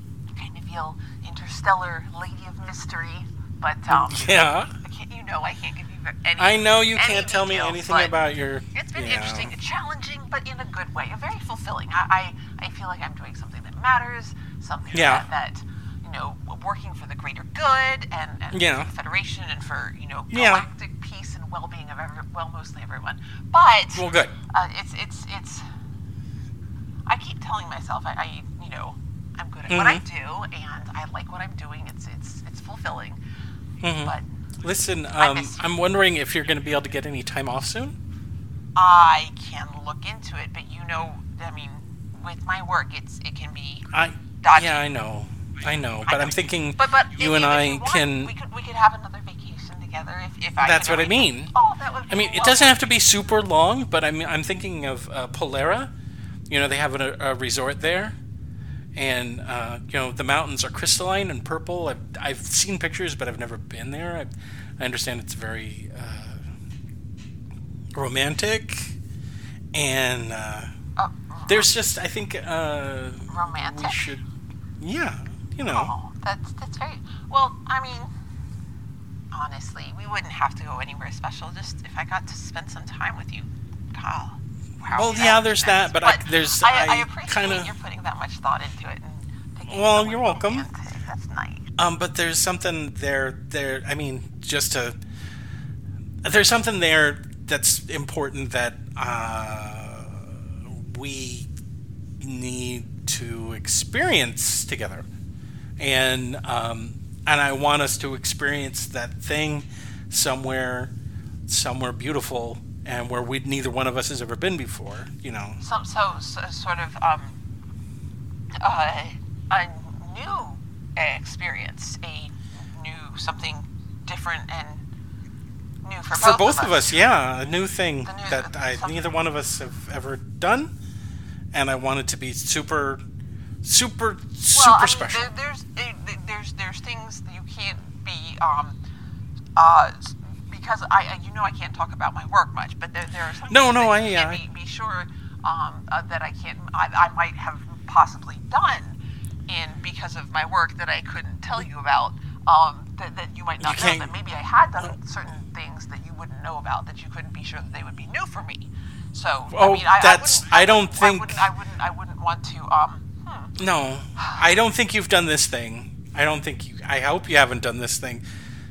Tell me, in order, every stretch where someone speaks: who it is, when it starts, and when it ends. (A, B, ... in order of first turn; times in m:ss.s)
0:00.3-0:08.2 A
0:03.9-0:04.7 B
0:06.4-0:09.5 B
0:08.7-0:25.6 A
0:14.9-0:15.3 B
0:18.5-0:18.9 B
0:20.3-0:20.7 B
0:24.0-0:24.4 B
0:27.1-0:33.2 A
0:29.7-0:30.0 B
0:33.8-0:38.0 B
0:35.2-0:35.6 A
0:38.8-0:43.9 A
0:43.9-0:48.3 B
0:44.4-0:44.8 A
0:46.1-0:52.9 A
0:50.6-0:51.5 B
0:52.1-0:55.9 B
0:56.5-0:58.2 B
0:59.0-1:06.4 B
1:08.0-1:09.0 B
1:09.7-1:10.7 B
1:11.0-1:11.7 A
1:11.5-1:14.2 B
1:13.3-1:14.1 A
1:14.8-1:15.9 B
1:15.7-1:18.1 A
1:19.3-1:31.6 A
1:24.9-1:27.7 B
1:29.7-1:30.7 B
1:31.8-1:35.0 B
1:36.2-1:41.5 B
1:42.2-1:45.1 B
1:45.8-1:50.9 B
1:51.5-1:55.6 B
1:55.6-1:57.3 A
1:58.6-2:04.8 A
2:05.8-2:06.9 A
2:06.1-2:10.7 B
2:08.1-2:09.0 A
2:11.5-2:13.0 B
2:13.6-2:15.3 B
2:14.5-2:18.8 A
2:19.6-2:29.0 A
2:23.5-2:24.4 B
2:29.5-2:43.5 A
2:33.6-2:34.1 B
2:39.5-2:41.5 B
2:43.6-2:48.2 B